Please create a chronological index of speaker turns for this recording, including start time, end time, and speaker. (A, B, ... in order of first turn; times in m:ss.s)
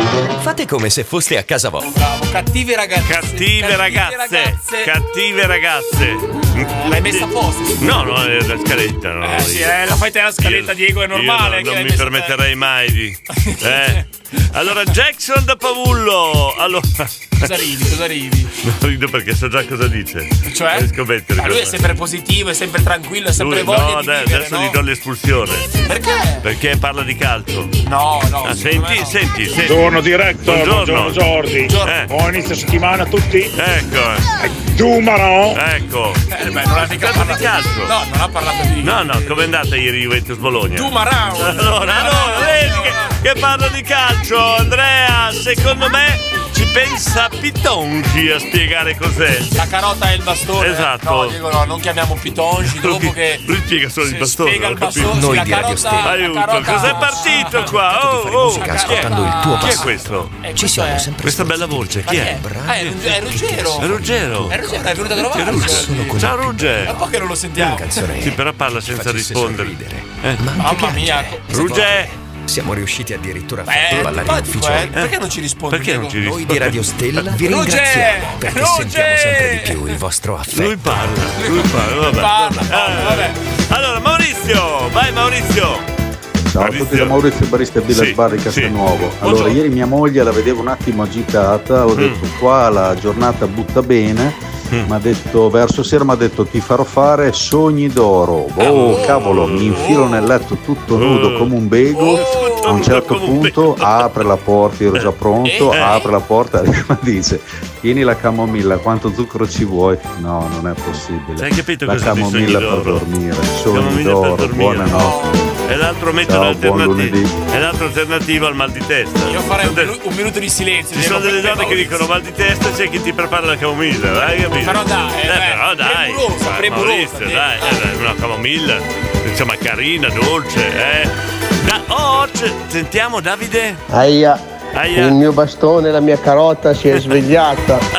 0:00.4-0:01.9 A
0:01.8-0:04.9 B
0:03.0-0:09.8 C
0:06.5-0:08.0 B
0:09.2-0:12.4 B
0:10.4-0:17.5 C
0:13.3-0:14.1 B
0:17.4-0:18.5 B
0:18.6-0:21.8 C
0:20.4-0:24.8 B
0:23.4-0:25.7 C
0:25.8-0:26.4 B
0:26.4-0:27.8 C
0:27.8-0:29.2 B
0:28.4-0:29.9 C
0:29.7-0:33.5 D
0:30.4-0:31.2 C
0:31.6-0:32.0 B
0:31.8-0:32.1 C
0:33.5-0:34.3 C
0:34.8-0:35.6 D
0:35.5-0:36.2 C
0:36.3-0:39.5 B
0:36.9-0:37.9 C
0:38.8-0:49.5 C
0:40.7-0:43.2 B
0:49.5-0:53.5 B
0:50.6-0:51.4 C
0:52.7-0:55.2 C
0:54.0-0:57.8 B
0:55.0-1:07.0 A
0:56.0-1:00.4 C
0:58.5-1:01.2 B
1:01.2-1:02.4 C
1:02.0-1:06.3 B
1:03.8-1:07.0 C
1:06.8-1:07.9 B
1:07.6-1:15.0 A
1:08.2-1:10.4 C
1:10.6-1:11.6 B
1:11.5-1:12.1 C
1:13.7-1:16.2 B
1:15.7-1:17.3 C
1:16.2-1:21.0 A
1:17.4-1:20.0 B
1:20.5-1:25.8 C
1:21.4-1:23.4 B
1:26.5-1:55.2 E
1:26.6-1:27.2 C
1:27.9-1:29.6 C
1:31.9-1:32.2 C
1:38.6-1:40.3 B
1:38.6-1:40.0 C
1:41.0-1:41.5 C
1:41.9-1:42.8 B
1:42.1-1:44.2 C
1:45.4-1:46.0 B
1:45.7-1:46.0 C
1:51.4-1:53.0 C
1:53.7-1:55.0 C
1:54.9-1:55.5 B
1:55.7-2:00.0 C
1:56.3-1:57.4 E
1:59.3-2:02.1 B
2:00.9-2:13.8 C
2:04.2-2:07.8 B
2:13.9-2:14.4 F
2:14.7-2:15.2 C
2:14.9-2:17.8 F